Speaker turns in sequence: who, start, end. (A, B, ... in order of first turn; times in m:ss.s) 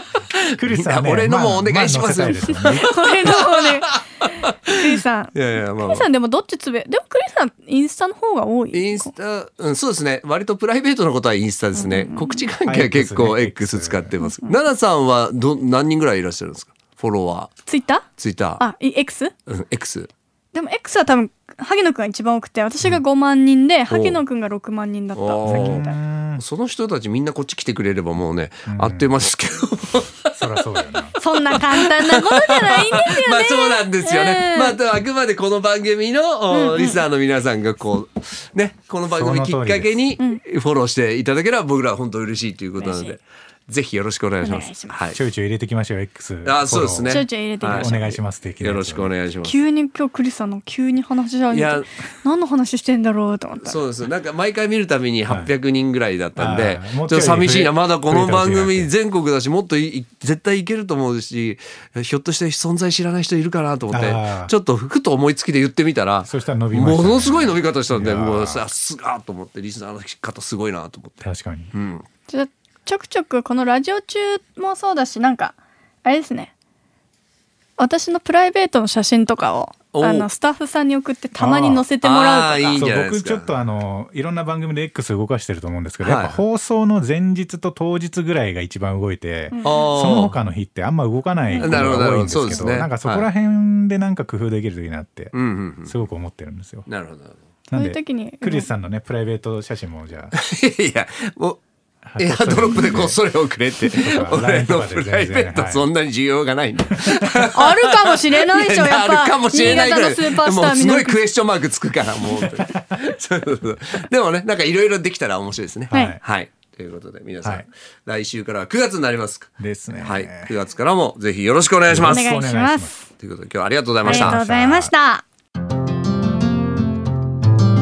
0:00.6-0:02.9 A
0:00.6-0:04.5 B
0:02.4-0:04.0 C
0:04.7-0:09.1 C
0:05.3-0:06.1 B
0:08.7-0:17.5 B
0:11.7-0:12.5 C
0:12.6-0:14.2 A
0:14.2-0:14.6 C
0:17.6-0:18.1 C
0:18.2-0:18.6 B
0:18.6-0:19.3 C
0:19.5-0:20.1 B
0:20.5-0:26.0 C
0:23.9-0:24.2 B
0:25.1-0:30.5 B
0:25.4-0:26.4 A
0:28.7-0:29.2 A
0:30.3-0:31.2 A
0:31.2-0:34.8 C
0:31.5-0:45.2 B
0:36.5-0:37.0 C
0:39.1-0:40.1 A
0:42.8-0:43.2 C
0:44.4-0:45.1 C
0:45.1-0:49.1 A
0:46.4-0:47.9 B
0:47.0-0:48.2 C
0:48.6-0:49.6 B
0:49.4-0:53.8 C
0:51.5-0:51.9 B
0:53.6-1:11.2 B
0:55.3-0:55.5 A
0:56.3-0:58.9 A
1:03.9-1:04.5 A
1:06.2-1:08.6 A
1:11.2-1:11.7 A
1:11.7-1:12.0 B
1:12.3-1:16.5 C
1:17.8-1:22.9 C
1:19.9-1:20.3 B
1:21.3-1:21.9 A
1:22.0-1:23.6 B
1:22.8-1:36.9 A
1:26.0-1:26.4 B
1:29.5-1:30.2 C
1:29.6-1:30.4 B
1:31.5-1:32.0 C
1:31.6-1:33.3 B
1:35.3-1:36.0 B
1:36.9-1:37.4 B
1:37.7-1:40.3 A
1:37.7-1:38.7 C
1:40.3-1:41.6 B
1:42.0-1:43.2 A
1:42.2-2:02.3 B
1:43.9-1:45.8 A
1:47.5-1:51.2 C
1:52.5-1:52.8 A
1:55.9-1:56.2 A
1:55.9-1:56.2 C
1:57.4-1:57.7 A
1:59.6-2:00.5 A
2:01.9-2:02.9 A
2:02.0-2:03.1 C
2:03.2-2:04.4 B
2:04.0-2:04.9 A
2:04.0-2:05.2 C